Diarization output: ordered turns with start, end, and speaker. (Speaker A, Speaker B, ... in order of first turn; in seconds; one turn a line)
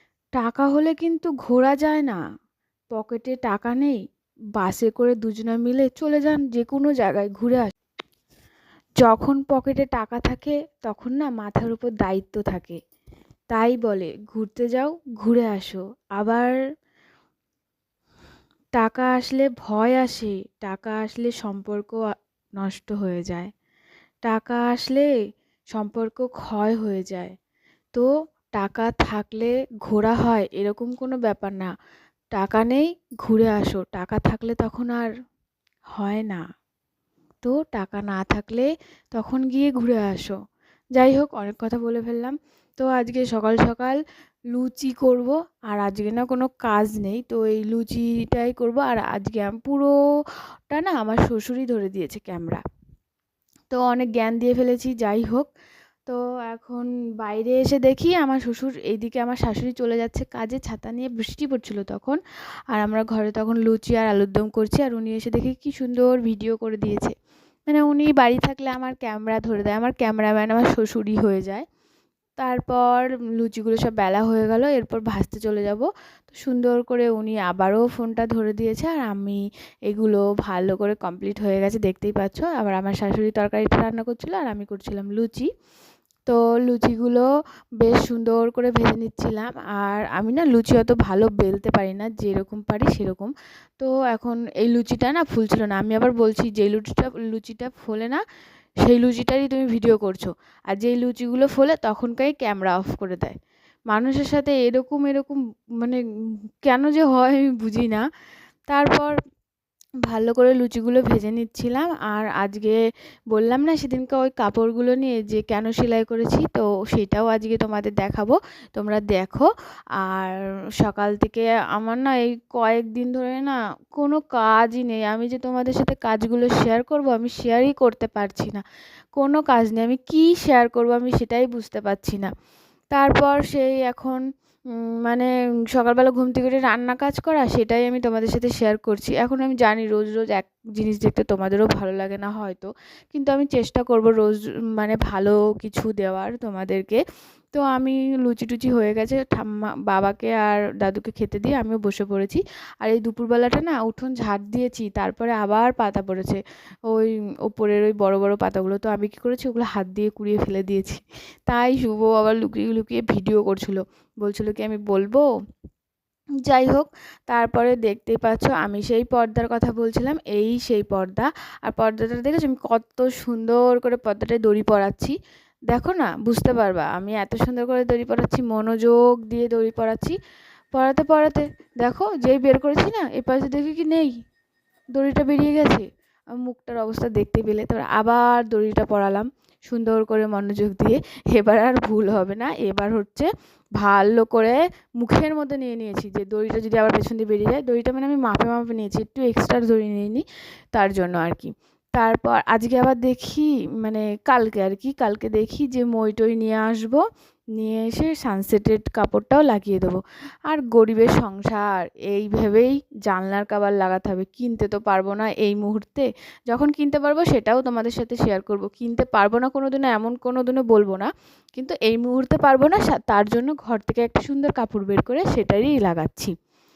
Speaker A: 0.3-2.2
Speaker A: 2.9-4.0
Speaker A: 4.6-7.7
Speaker A: 9.0-12.8
Speaker A: 13.5-16.5
Speaker A: 18.8-22.0
Speaker A: 22.6-23.5
Speaker A: 24.2-25.1
Speaker A: 25.7-27.3
Speaker A: 27.9-31.7
Speaker A: 32.3-35.1
Speaker A: 36.0-36.4
Speaker A: 37.4-40.3
Speaker A: 41.0-44.0
Speaker A: 44.5-49.9
Speaker A: 50.7-52.6
Speaker A: 53.7-55.5
Speaker A: 56.0-62.2
Speaker A: 62.7-67.1
Speaker A: 67.7-71.6
Speaker A: 72.4-85.5
Speaker A: 86.2-87.3
Speaker A: 87.8-98.2
Speaker A: 98.8-103.4
Speaker A: 103.9-106.0
Speaker A: 106.6-108.0
Speaker A: 108.7-109.1
Speaker A: 110.1-112.8
Speaker A: 113.3-119.5
Speaker A: 120.0-128.6
Speaker A: 129.2-132.3
Speaker A: 132.9-134.2
Speaker A: 134.7-165.2
Speaker A: 166.4-175.1
Speaker A: 175.7-180.2
Speaker A: 180.7-184.1
Speaker A: 184.9-185.9
Speaker A: 186.4-207.0
Speaker A: 207.6-226.3